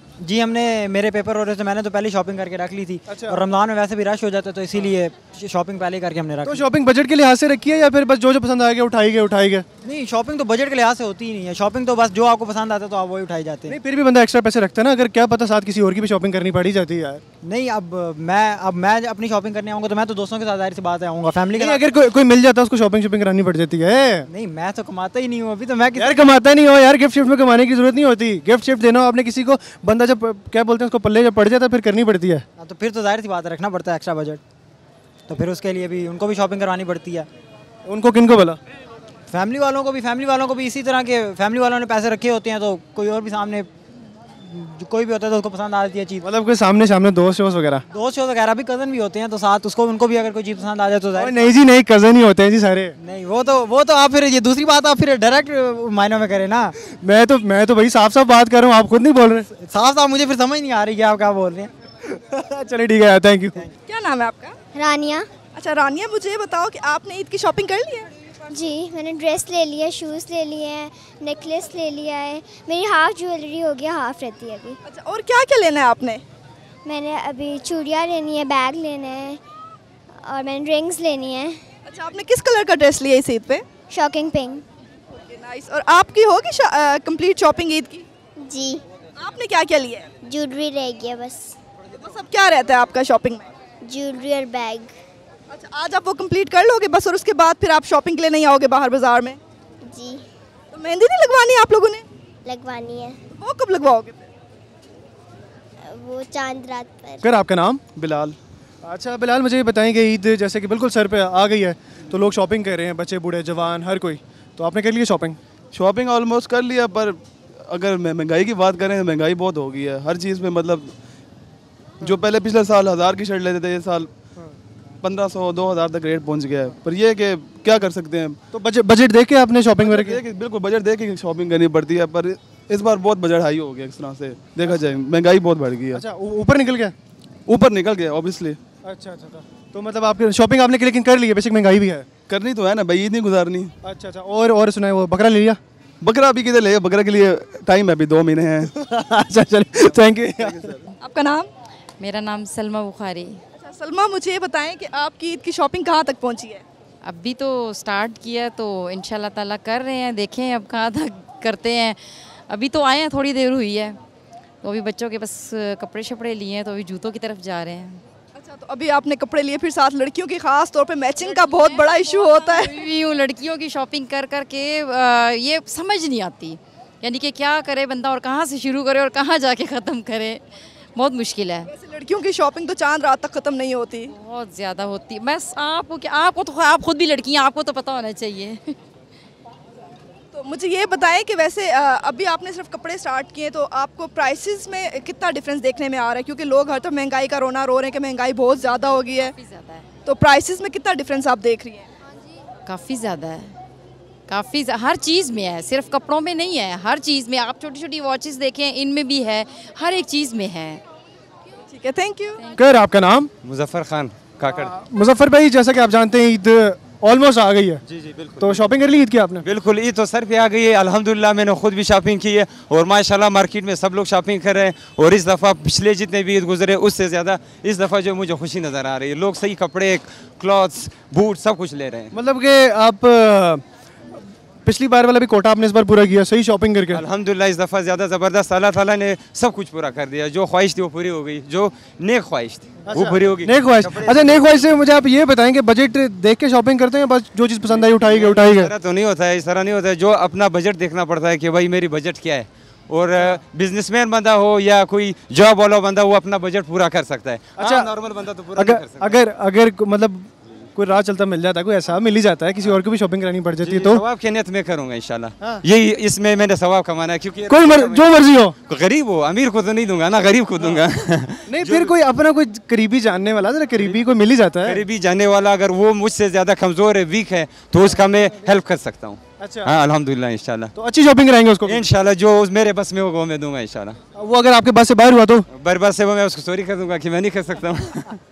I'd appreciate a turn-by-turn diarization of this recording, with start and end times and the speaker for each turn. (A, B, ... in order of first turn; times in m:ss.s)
0:00.2-0:06.6 A
0:03.1-0:03.4 B
0:06.4-0:09.7 B
0:09.8-0:13.8 A
0:13.7-0:17.2 B
0:17.4-0:21.9 A
0:21.6-0:24.3 B
0:24.3-0:26.2 A
0:26.0-0:32.4 B
0:32.6-0:34.4 A
0:35.3-0:37.3 A
0:37.8-0:38.6 B
0:39.3-0:43.7 A
0:44.4-0:46.2 A
0:46.2-0:47.8 B
0:47.9-0:51.5 A
0:51.2-0:53.0 B
0:53.0-0:56.8 A
0:56.9-0:59.5 B
0:59.5-1:01.7 A
1:02.2-1:03.6 B
1:03.9-1:04.6 C
1:04.7-1:05.3 D
1:05.5-1:08.1 C
1:08.5-1:14.8 D
1:14.8-1:16.2 C
1:16.8-1:19.4 D
1:20.1-1:21.6 D
1:21.8-1:23.6 C
1:23.9-1:24.6 D
1:25.2-1:28.0 C
1:28.4-1:28.8 D
1:29.2-1:30.1 C
1:30.2-1:31.6 D
1:32.0-1:33.5 C
1:33.8-1:34.9 D
1:35.5-1:39.4 C
1:39.8-1:40.2 D
1:40.7-1:42.0 C
1:42.4-1:43.2 D
1:43.3-1:44.3 C
1:45.8-1:47.2 D
1:47.2-1:47.8 B
1:48.0-1:48.4 E
1:48.8-1:55.4 B
1:55.7-2:00.9 E
2:02.0-2:04.1 E
2:05.0-2:08.4 E
2:08.5-2:10.2 B
2:09.8-2:16.0 E
2:15.9-2:16.9 B
2:17.5-2:18.6 E
2:18.8-2:22.1 B
2:22.3-2:23.7 E
2:23.8-2:25.6 B
2:26.0-2:28.7 E
2:28.8-2:30.7 B
2:30.4-2:30.9 E
2:31.0-2:31.5 C
2:32.0-2:33.4 F
2:33.6-2:36.6 C
2:37.0-2:44.0 F
2:44.6-2:48.0 F
2:48.3-2:52.8 C
2:51.2-3:00.4 F
3:01.0-3:01.7 F
3:01.7-3:04.1 C
3:04.1-3:08.6 F
3:10.3-3:19.3 C
3:18.6-3:19.9 F
3:20.0-3:21.8 C
3:22.6-3:23.5 F
3:24.3-3:30.8 F
3:31.7-3:32.4 C
3:32.5-3:33.3 B
3:33.4-3:34.7 G
3:34.5-3:37.8 B
3:37.9-3:38.6 G
3:38.4-3:39.4 B
3:39.4-3:52.1 G
3:52.1-3:53.6 B
3:54.6-3:57.0 B
3:56.9-4:04.8 G
4:02.8-4:08.7 B
4:07.7-4:19.2 G
4:17.6-4:17.9 B
4:18.5-4:24.0 B
4:23.6-4:31.9 G
4:27.5-4:28.6 B
4:31.5-4:34.8 B
4:34.6-4:40.7 G
4:39.4-4:39.7 B
4:40.7-4:41.9 B
4:41.6-4:44.0 G
4:44.2-4:45.4 B
4:45.5-4:48.2 G